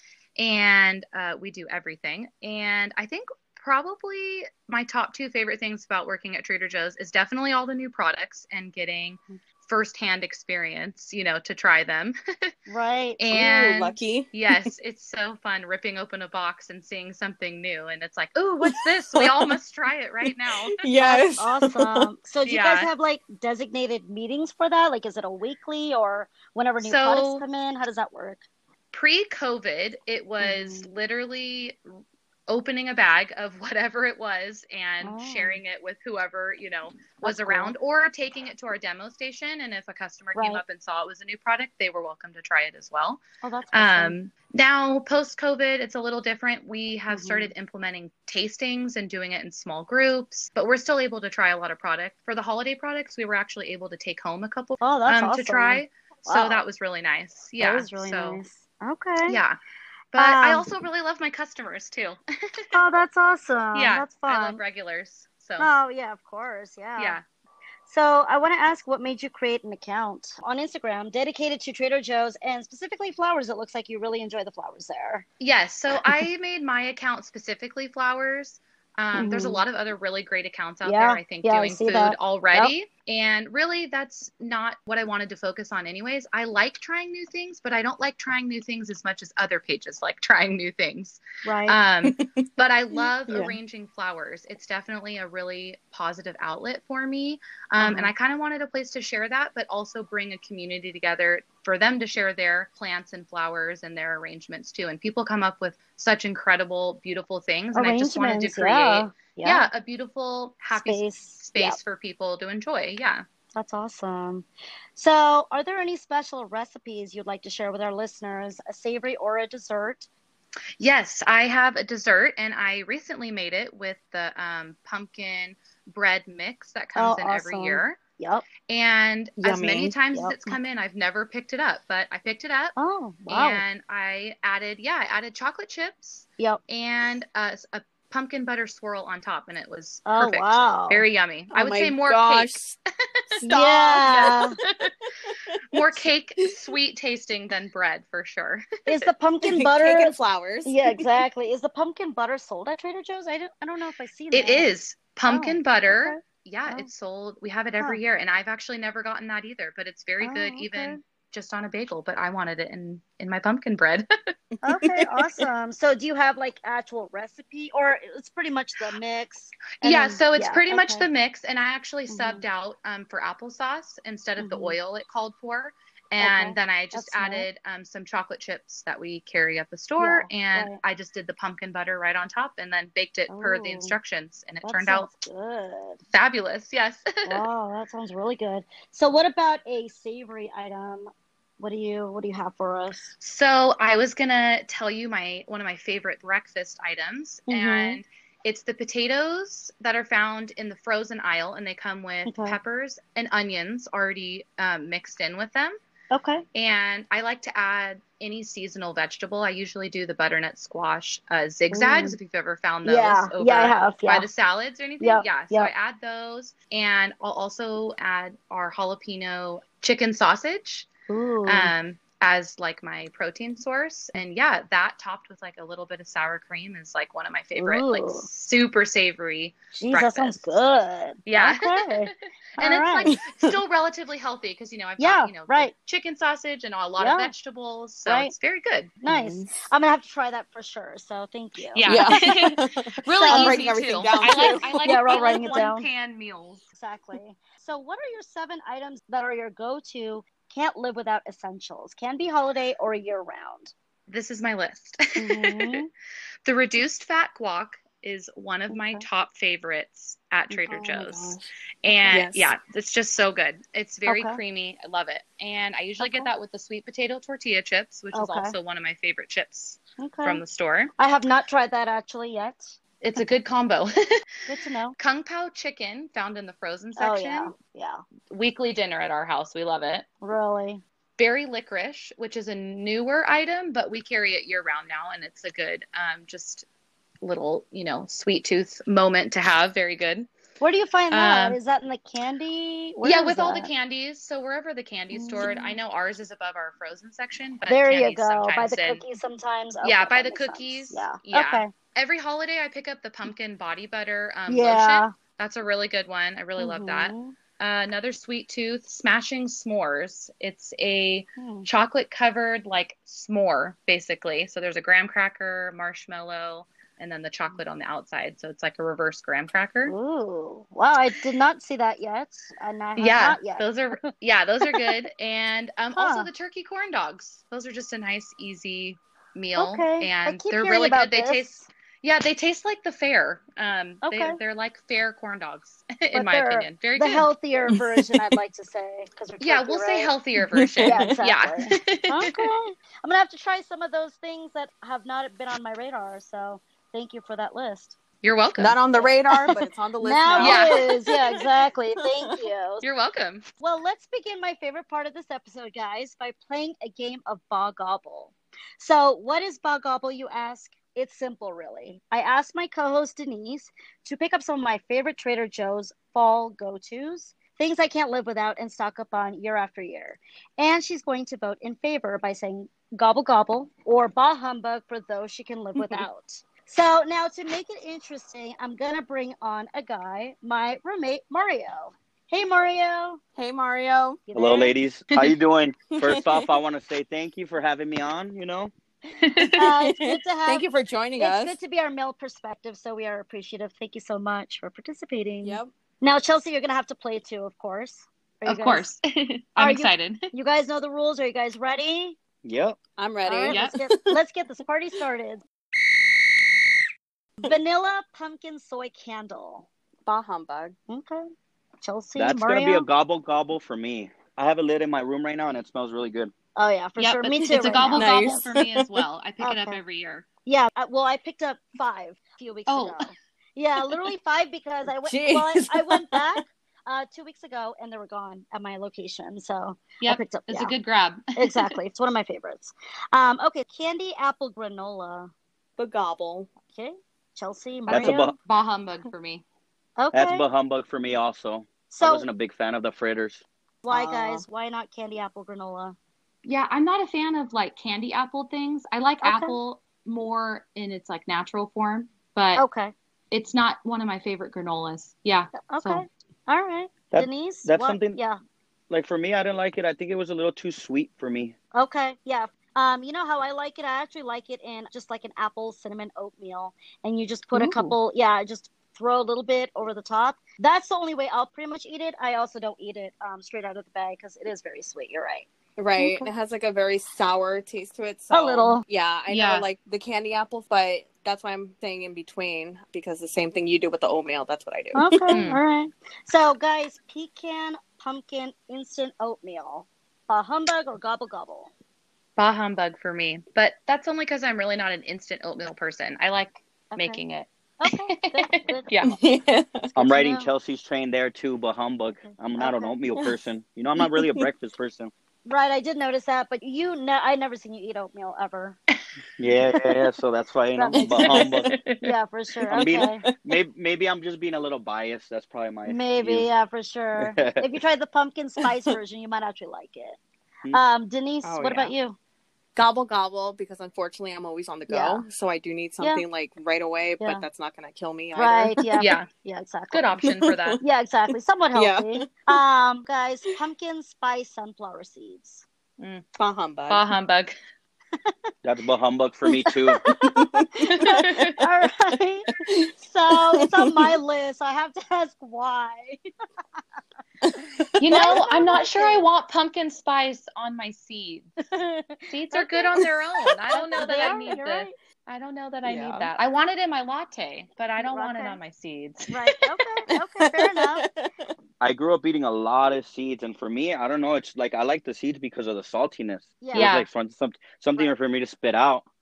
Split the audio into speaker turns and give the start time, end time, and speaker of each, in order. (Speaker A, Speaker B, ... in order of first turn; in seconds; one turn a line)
Speaker A: 0.4-12.5
Speaker B: 12.7-13.3
Speaker A: 13.2-20.8
Speaker C: 13.3-14.7
Speaker C: 18.6-19.6
Speaker C: 20.5-22.1
Speaker B: 21.0-28.4
Speaker A: 22.4-22.9
Speaker A: 26.8-27.4
Speaker A: 28.9-31.8
Speaker B: 30.4-30.9
Speaker A: 32.5-43.2
Speaker B: 35.0-35.6
Speaker B: 37.2-37.7
Speaker B: 40.3-40.6
Speaker B: 43.4-44.2
Speaker A: 43.7-58.4
Speaker B: 47.1-47.5
Speaker B: 54.8-56.6
Speaker B: 57.6-59.4
Speaker A: 59.2-59.6
Speaker A: 60.1-62.7
Speaker B: 60.1-60.7
Speaker B: 62.7-64.6
Speaker A: 63.7-65.7
Speaker B: 65.6-67.2
Speaker A: 67.0-67.2
Speaker B: 67.8-75.2
Speaker A: 75.4-113.2
Speaker B: 79.2-79.6
Speaker B: 80.8-82.7
Speaker B: 91.4-91.8
Speaker C: 92.0-93.5
Speaker B: 97.8-98.1
Speaker B: 107.7-109.7
Speaker B: 110.7-111.8
Speaker B: 113.5-120.1
Speaker A: 120.8-128.0
Speaker B: 127.0-128.5
Speaker A: 128.7-132.8
Speaker C: 129.4-129.9
Speaker B: 130.1-130.5
Speaker B: 132.8-133.6
Speaker A: 133.3-142.7
Speaker B: 140.1-141.0
Speaker C: 141.5-142.8
Speaker C: 143.3-144.5
Speaker B: 143.4-144.6
Speaker A: 144.0-144.9
Speaker C: 145.2-146.1
Speaker A: 145.7-148.7
Speaker B: 148.8-154.7
Speaker C: 149.4-151.1
Speaker A: 154.3-164.1
Speaker B: 155.2-156.9
Speaker B: 160.2-161.0
Speaker C: 164.6-165.4
Speaker B: 164.6-171.1
Speaker A: 169.8-185.1
Speaker B: 172.1-172.4
Speaker B: 174.4-174.8
Speaker B: 176.2-177.5
Speaker B: 180.0-180.8
Speaker B: 183.3-183.9
Speaker B: 184.6-186.0
Speaker A: 186.1-187.4
Speaker B: 187.2-193.1
Speaker A: 193.2-205.8
Speaker B: 197.5-198.0
Speaker B: 202.2-202.6
Speaker B: 206.1-206.4
Speaker A: 206.5-220.9
Speaker B: 211.7-212.2
Speaker B: 212.8-214.3
Speaker B: 215.0-215.7
Speaker B: 221.1-221.7
Speaker A: 221.4-230.6
Speaker B: 227.6-228.3
Speaker B: 229.7-233.2
Speaker A: 231.2-238.9
Speaker B: 235.0-235.7
Speaker B: 237.0-237.3
Speaker B: 238.1-238.3
Speaker B: 239.0-242.1
Speaker C: 239.1-239.7
Speaker A: 241.7-246.7
Speaker C: 241.8-245.6
Speaker B: 243.3-245.9
Speaker B: 246.7-253.7
Speaker A: 254.1-255.8
Speaker B: 255.2-255.9
Speaker A: 256.4-270.9
Speaker B: 258.7-259.0
Speaker C: 260.7-261.5
Speaker C: 262.1-262.5
Speaker B: 264.1-264.4
Speaker B: 266.0-266.3
Speaker B: 268.1-268.5
Speaker B: 270.0-270.4
Speaker B: 271.0-273.2
Speaker A: 273.0-273.9
Speaker B: 274.5-274.9
Speaker A: 275.0-277.5
Speaker B: 277.0-278.0
Speaker A: 278.3-280.1
Speaker B: 280.2-280.8
Speaker A: 281.2-286.6
Speaker A: 287.2-290.3
Speaker B: 290.6-293.7
Speaker A: 291.1-291.6
Speaker A: 293.0-299.0
Speaker B: 295.1-295.8
Speaker B: 297.7-301.7
Speaker A: 299.8-319.9
Speaker B: 304.5-305.1
Speaker B: 306.6-307.4
Speaker B: 311.4-311.7
Speaker B: 319.9-324.1
Speaker A: 323.0-337.3
Speaker B: 324.6-324.9
Speaker B: 325.9-326.3
Speaker B: 329.6-331.5
Speaker B: 334.0-334.4
Speaker B: 336.1-340.1
Speaker C: 337.7-338.2
Speaker A: 339.4-342.5
Speaker C: 340.4-341.1
Speaker B: 340.8-348.0
Speaker A: 348.2-348.8
Speaker C: 348.6-351.5
Speaker B: 348.9-352.8
Speaker A: 350.4-350.9
Speaker A: 352.8-353.4
Speaker B: 353.6-383.2
Speaker C: 375.8-376.0
Speaker C: 383.4-384.2
Speaker B: 384.3-384.8
Speaker D: 384.3-388.7
Speaker C: 386.0-386.5
Speaker A: 389.2-389.7
Speaker C: 389.4-391.6
Speaker B: 389.6-390.7
Speaker B: 391.2-398.9
Speaker C: 395.4-395.7
Speaker A: 398.4-400.3
Speaker B: 399.6-402.2
Speaker D: 402.4-402.8
Speaker C: 403.0-404.2
Speaker B: 403.2-405.4
Speaker A: 403.5-403.7
Speaker B: 407.4-409.7
Speaker C: 410.1-410.8
Speaker B: 410.9-411.2
Speaker B: 411.8-412.9
Speaker D: 412.1-416.3
Speaker B: 416.6-418.5
Speaker A: 417.0-420.3
Speaker C: 417.7-419.0
Speaker B: 419.4-419.8
Speaker B: 420.4-430.7
Speaker A: 422.7-423.1
Speaker C: 425.0-426.4
Speaker A: 430.0-431.8
Speaker B: 431.3-435.3
Speaker C: 435.8-436.5
Speaker B: 436.7-438.3
Speaker D: 437.9-438.3
Speaker A: 437.9-439.4
Speaker B: 440.0-440.4
Speaker D: 440.1-443.4
Speaker B: 441.9-442.3
Speaker B: 443.8-445.9
Speaker C: 443.9-444.4
Speaker A: 446.4-452.6
Speaker B: 449.2-449.6
Speaker B: 452.6-452.9
Speaker A: 453.3-456.0
Speaker B: 455.6-458.4
Speaker D: 457.1-458.2
Speaker D: 458.9-461.5
Speaker B: 461.7-476.3
Speaker C: 467.5-467.9
Speaker C: 475.8-485.4
Speaker B: 478.3-478.8
Speaker A: 479.3-479.7
Speaker B: 484.9-491.7
Speaker A: 485.3-485.6
Speaker A: 492.4-499.2
Speaker B: 496.9-497.2
Speaker B: 497.8-498.9
Speaker C: 499.0-499.9
Speaker D: 499.9-505.1
Speaker B: 500.0-500.5
Speaker B: 502.2-502.9
Speaker C: 504.0-504.4
Speaker B: 505.4-508.8
Speaker D: 509.4-511.7
Speaker B: 510.7-511.4
Speaker C: 510.9-511.7
Speaker A: 511.3-512.1
Speaker B: 512.0-513.2
Speaker C: 512.7-513.5
Speaker D: 512.7-516.5
Speaker B: 515.9-520.2
Speaker D: 517.2-517.8
Speaker B: 520.7-522.2
Speaker C: 521.4-521.9
Speaker C: 522.7-529.0
Speaker B: 524.9-525.2
Speaker B: 528.3-530.1
Speaker A: 529.0-529.3
Speaker A: 529.9-530.8
Speaker C: 530.2-530.8
Speaker B: 530.8-535.6
Speaker C: 531.7-532.6
Speaker A: 536.0-536.2
Speaker C: 536.4-537.0
Speaker A: 536.9-537.5
Speaker D: 538.6-540.0
Speaker B: 539.7-546.2
Speaker C: 540.2-541.5
Speaker A: 540.9-541.6
Speaker C: 542.6-542.9
Speaker C: 543.5-544.1
Speaker C: 547.4-548.3
Speaker A: 548.0-551.5
Speaker B: 548.1-549.3
Speaker B: 551.7-553.2
Speaker A: 552.3-559.3
Speaker B: 553.7-554.9
Speaker C: 555.8-556.3
Speaker B: 558.0-558.6
Speaker B: 559.3-561.0
Speaker C: 560.1-561.5
Speaker D: 561.8-569.0
Speaker B: 566.6-566.9
Speaker A: 566.7-567.1